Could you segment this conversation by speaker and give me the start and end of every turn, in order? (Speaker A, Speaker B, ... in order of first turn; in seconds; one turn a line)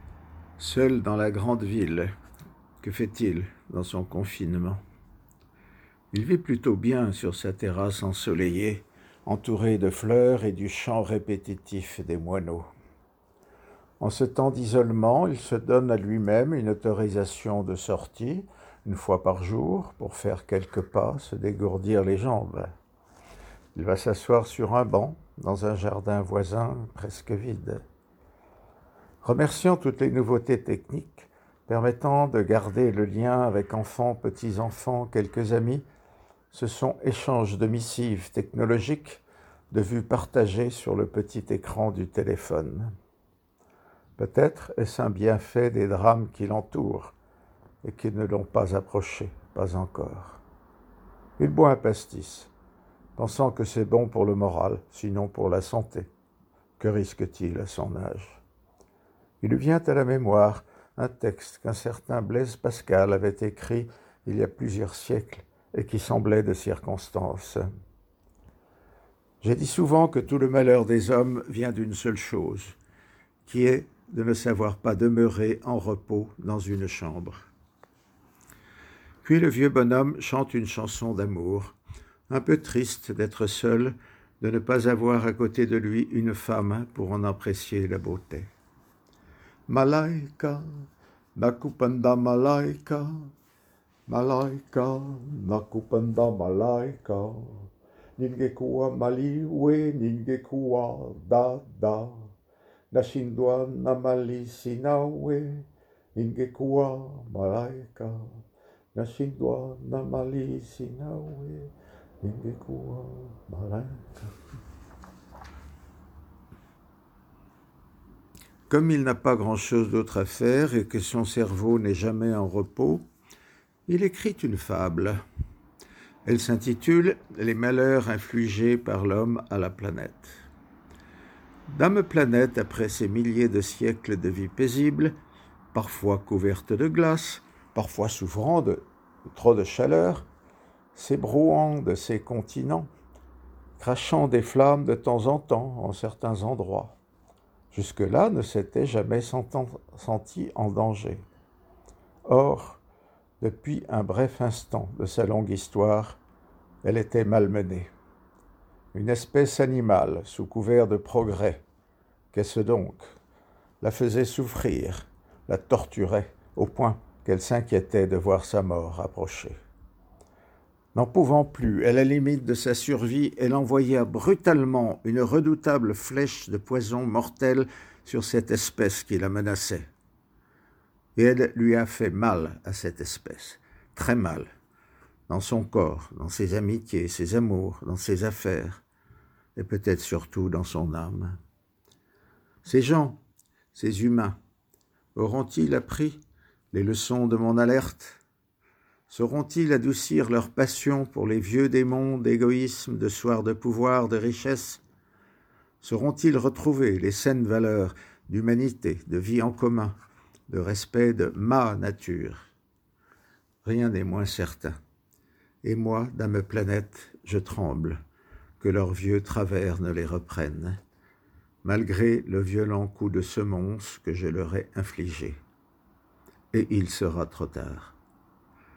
Speaker A: 0.6-2.1
Speaker A: 2.8-4.8
Speaker A: 6.1-12.7
Speaker A: 14.0-22.7
Speaker A: 23.8-27.8
Speaker A: 29.2-35.8
Speaker A: 36.5-42.9
Speaker A: 44.2-47.1
Speaker A: 47.8-50.4
Speaker A: 51.4-52.5
Speaker A: 53.2-56.1
Speaker A: 56.8-58.4
Speaker A: 59.4-67.7
Speaker A: 69.4-72.8
Speaker A: 73.5-77.4
Speaker A: 79.2-81.8
Speaker A: 82.3-88.5
Speaker A: 89.7-90.8
Speaker A: 91.3-93.3
Speaker A: 94.1-102.3
Speaker A: 102.9-108.4
Speaker A: 108.9-114.3
Speaker A: 118.7-123.0
Speaker A: 123.9-125.2
Speaker A: 126.3-130.3
Speaker A: 131.7-135.2
Speaker A: 135.7-140.3
Speaker A: 140.9-142.9
Speaker A: 143.8-147.0
Speaker A: 147.7-151.2
Speaker A: 152.3-152.8
Speaker A: 153.4-156.2
Speaker A: 156.8-157.9
Speaker A: 158.9-161.6
Speaker A: 162.3-163.1
Speaker A: 163.8-169.6
Speaker A: 170.9-179.9
Speaker A: 181.2-184.5
Speaker A: 185.3-188.8
Speaker A: 189.6-191.4
Speaker A: 192.6-193.2
Speaker A: 193.7-194.4
Speaker A: 195.2-196.2
Speaker A: 196.7-198.2
Speaker A: 199.1-204.8
Speaker A: 205.8-209.9
Speaker A: 210.5-212.5
Speaker A: 213.6-214.8
Speaker A: 215.6-218.0
Speaker A: 218.6-220.8
Speaker A: 221.6-225.4
Speaker A: 226.5-228.0